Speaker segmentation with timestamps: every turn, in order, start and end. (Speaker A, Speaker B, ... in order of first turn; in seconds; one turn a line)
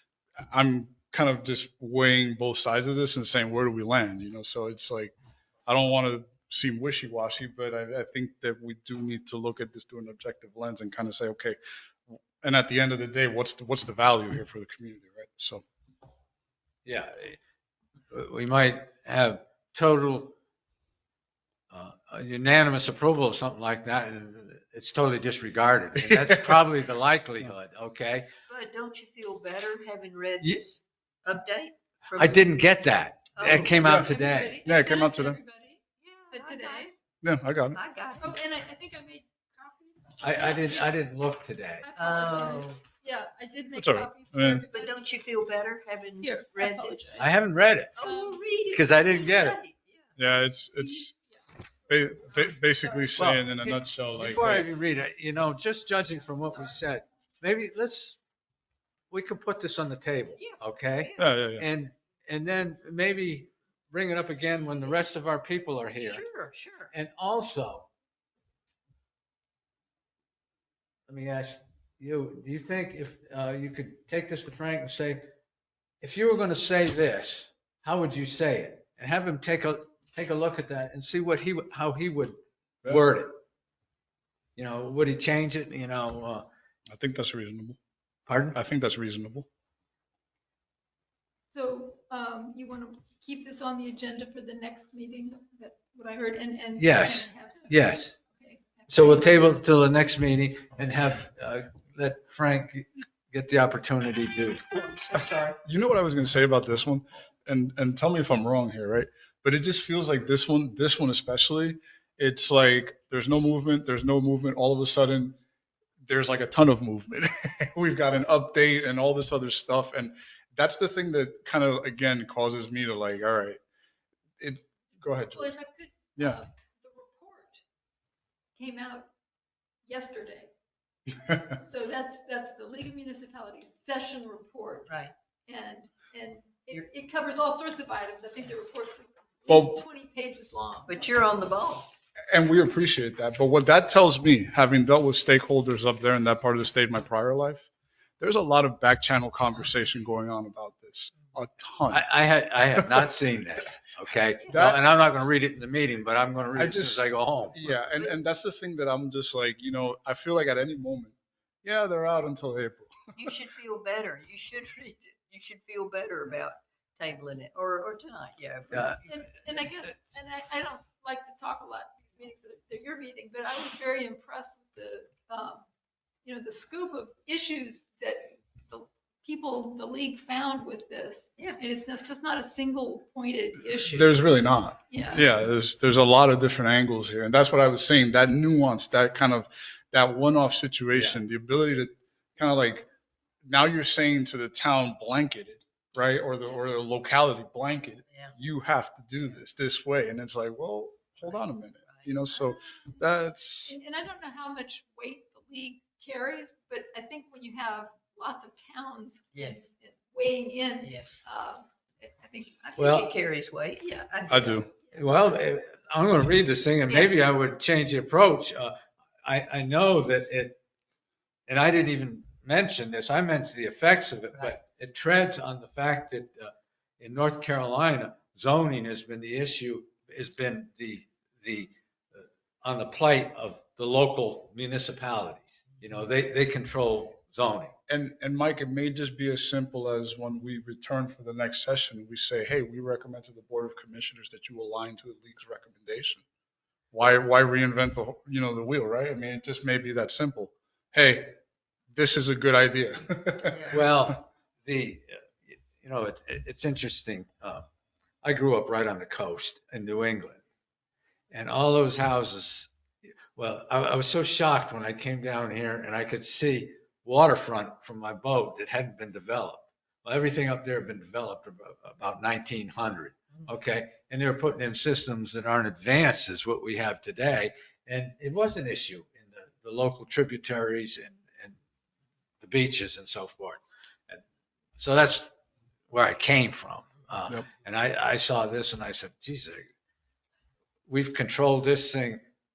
Speaker A: 0.5-5.1
Speaker A: 5.7-11.6
Speaker A: 12.4-15.6
Speaker B: 16.8-17.4
Speaker B: 18.1-20.4
Speaker B: 21.7-28.3
Speaker A: 26.0-26.6
Speaker C: 28.5-32.6
Speaker B: 32.1-34.6
Speaker C: 33.4-33.9
Speaker A: 33.5-34.1
Speaker D: 33.7-36.9
Speaker A: 34.6-35.4
Speaker C: 36.0-36.9
Speaker A: 37.2-37.8
Speaker C: 37.7-38.3
Speaker D: 38.2-41.0
Speaker B: 40.2-41.9
Speaker D: 41.8-45.0
Speaker C: 42.0-42.8
Speaker A: 43.7-44.6
Speaker C: 44.7-47.3
Speaker D: 46.2-47.3
Speaker B: 47.2-48.0
Speaker C: 47.9-50.1
Speaker D: 48.0-48.7
Speaker B: 48.7-49.6
Speaker A: 50.2-51.1
Speaker D: 50.8-51.4
Speaker A: 51.9-54.7
Speaker D: 52.3-52.9
Speaker B: 53.1-58.2
Speaker B: 59.1-66.2
Speaker C: 60.4-61.2
Speaker A: 61.2-61.6
Speaker C: 66.0-66.9
Speaker B: 66.9-67.9
Speaker B: 71.1-75.2
Speaker B: 76.0-83.4
Speaker B: 84.5-86.5
Speaker A: 86.9-87.8
Speaker B: 88.3-88.6
Speaker A: 88.5-89.5
Speaker D: 91.5-99.5
Speaker B: 96.8-98.1
Speaker B: 98.9-104.6
Speaker C: 104.7-105.6
Speaker A: 105.6-115.4
Speaker A: 116.0-123.6
Speaker A: 124.4-125.5
Speaker D: 125.3-127.6
Speaker D: 128.6-129.1
Speaker D: 129.8-130.5
Speaker D: 131.4-141.1
Speaker A: 139.5-139.8
Speaker C: 140.9-141.9
Speaker A: 142.3-147.7
Speaker A: 148.2-152.1
Speaker B: 151.9-157.8
Speaker A: 154.5-154.8
Speaker A: 156.5-162.9
Speaker C: 163.2-169.2
Speaker B: 168.7-169.0
Speaker D: 169.0-175.6
Speaker D: 176.2-184.2
Speaker A: 183.9-192.9
Speaker D: 184.9-185.2
Speaker B: 190.9-191.2
Speaker A: 193.4-203.8
Speaker D: 203.7-212.7
Speaker C: 209.3-209.6
Speaker C: 210.8-211.2
Speaker C: 212.6-214.6
Speaker B: 212.8-213.1
Speaker D: 213.8-215.2
Speaker A: 214.3-214.7
Speaker B: 214.9-220.6
Speaker B: 221.5-237.7
Speaker A: 237.9-246.2
Speaker A: 246.9-251.4
Speaker A: 251.9-253.8
Speaker C: 253.5-253.8
Speaker B: 253.7-257.6
Speaker B: 258.2-260.4
Speaker B: 261.3-281.6
Speaker B: 282.4-284.2
Speaker B: 284.8-285.3
Speaker B: 285.9-289.7
Speaker B: 290.9-292.2